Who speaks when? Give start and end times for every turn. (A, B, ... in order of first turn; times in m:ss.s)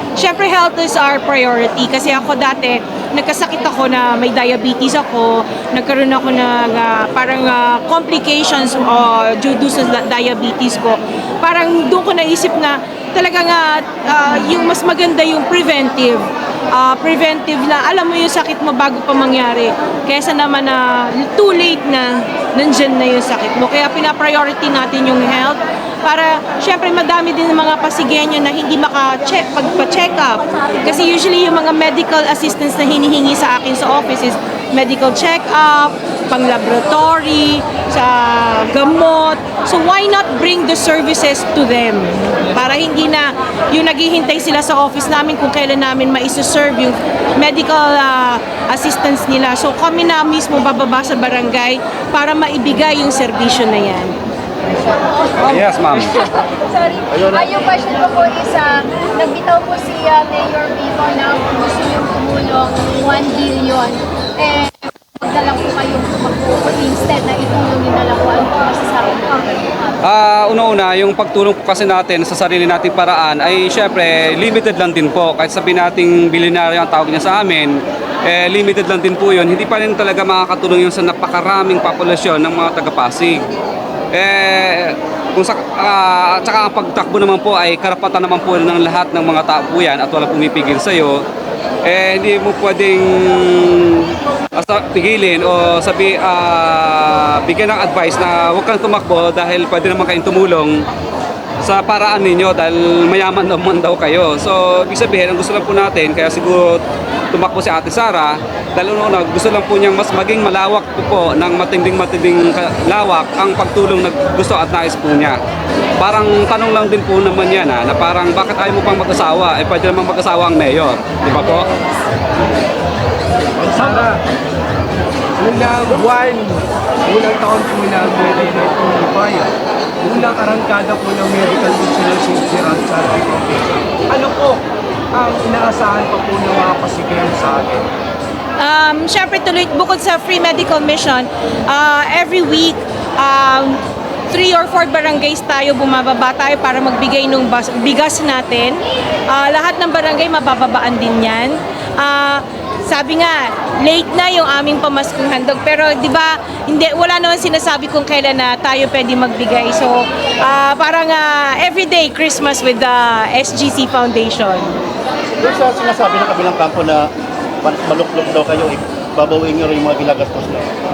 0:00.2-0:54.2 A
0:54.8-0:55.6 B
0:55.4-0:56.2 C
0:56.2-1:09.9 B
0:57.1-0:57.5 D
1:10.0-1:23.5 C
1:24.1-1:31.2 C
1:31.8-1:40.8 C
1:41.6-1:55.4 C
1:56.0-2:01.7 C
2:03.6-2:04.2 E
2:05.4-2:09.5 E
2:10.0-2:14.6 E
2:15.1-2:17.9 E
2:18.6-2:23.8 A
2:24.3-2:44.8 A
2:45.4-2:47.1 D
2:47.6-2:50.7 D